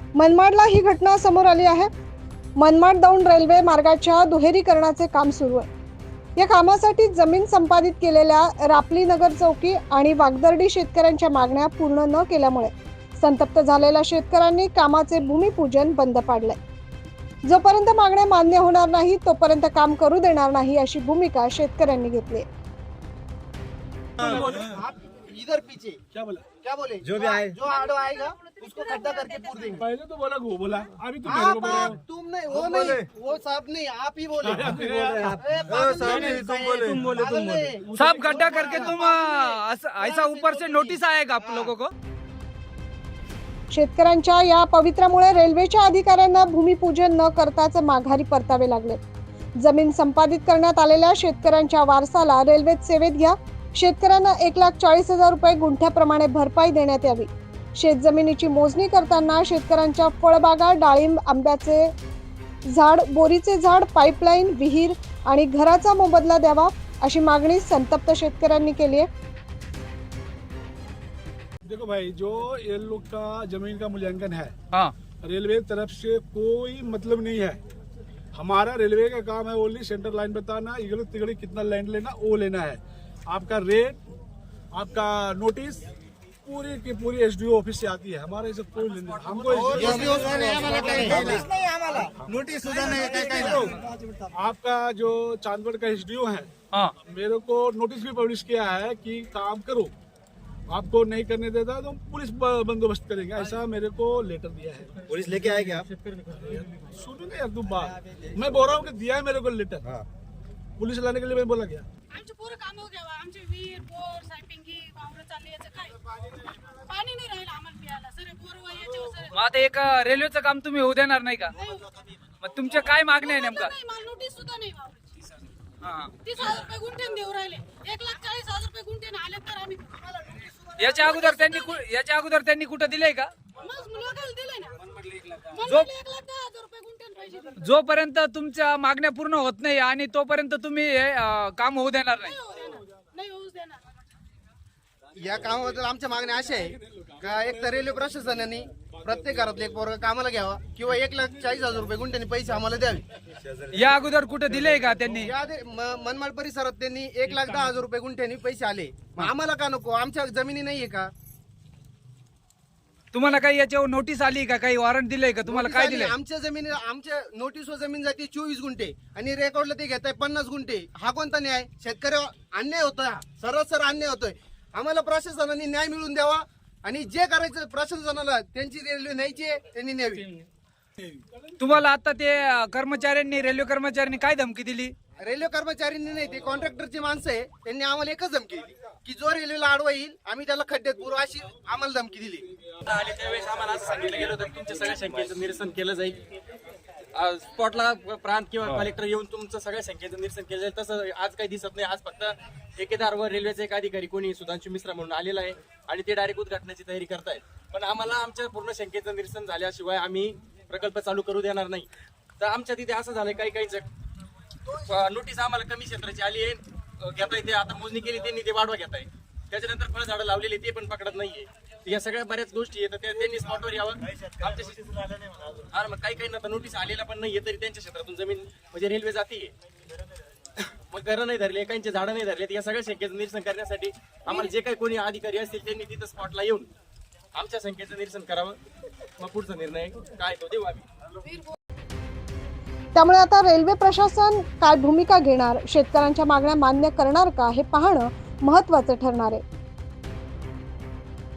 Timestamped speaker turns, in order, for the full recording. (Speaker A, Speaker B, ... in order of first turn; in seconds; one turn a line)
Speaker A: 0.1-1.9
Speaker A: 2.6-5.7
Speaker A: 6.4-16.6
Speaker A: 17.4-22.5
Speaker B: 24.2-24.7
Speaker C: 24.3-26.0
Speaker B: 26.1-26.5
Speaker C: 26.6-29.9
Speaker D: 27.0-27.6
Speaker E: 28.5-29.3
Speaker B: 29.8-32.0
Speaker C: 31.2-41.7
Speaker D: 32.6-33.0
Speaker B: 34.4-35.4
Speaker D: 34.9-37.6
Speaker F: 37.9-41.9
Speaker A: 43.7-49.0
Speaker A: 49.6-61.9
Speaker A: 62.7-69.1
Speaker B: 71.6-74.5
Speaker B: 75.2-77.6
Speaker B: 78.3-84.0
Speaker B: 84.7-85.8
Speaker B: 86.4-91.4
Speaker G: 89.0-90.3
Speaker C: 89.5-91.5
Speaker D: 89.8-93.7
Speaker B: 92.6-96.5
Speaker B: 97.0-99.9
Speaker B: 100.7-105.1
Speaker D: 105.1-105.9
Speaker B: 106.7-109.9
Speaker B: 110.8-111.9
Speaker E: 112.1-119.4
Speaker F: 119.3-121.5
Speaker E: 121.5-122.0
Speaker F: 122.4-123.7
Speaker E: 123.2-125.2
Speaker F: 125.8-126.1
Speaker E: 126.2-130.1
Speaker F: 130.8-133.3
Speaker E: 131.1-131.8
Speaker E: 133.6-137.7
Speaker F: 137.6-142.4
Speaker E: 142.2-144.0
Speaker C: 145.2-153.1
Speaker F: 153.7-155.3
Speaker C: 155.2-161.1
Speaker F: 163.1-166.1
Speaker C: 165.5-180.3
Speaker F: 181.6-184.9
Speaker C: 185.2-192.5
Speaker G: 192.8-196.2
Speaker G: 197.1-211.9
Speaker G: 212.4-213.9
Speaker G: 214.7-229.5
Speaker G: 230.8-236.7
Speaker G: 237.3-238.6
Speaker G: 239.2-240.9
Speaker E: 241.2-241.5
Speaker A: 242.9-249.4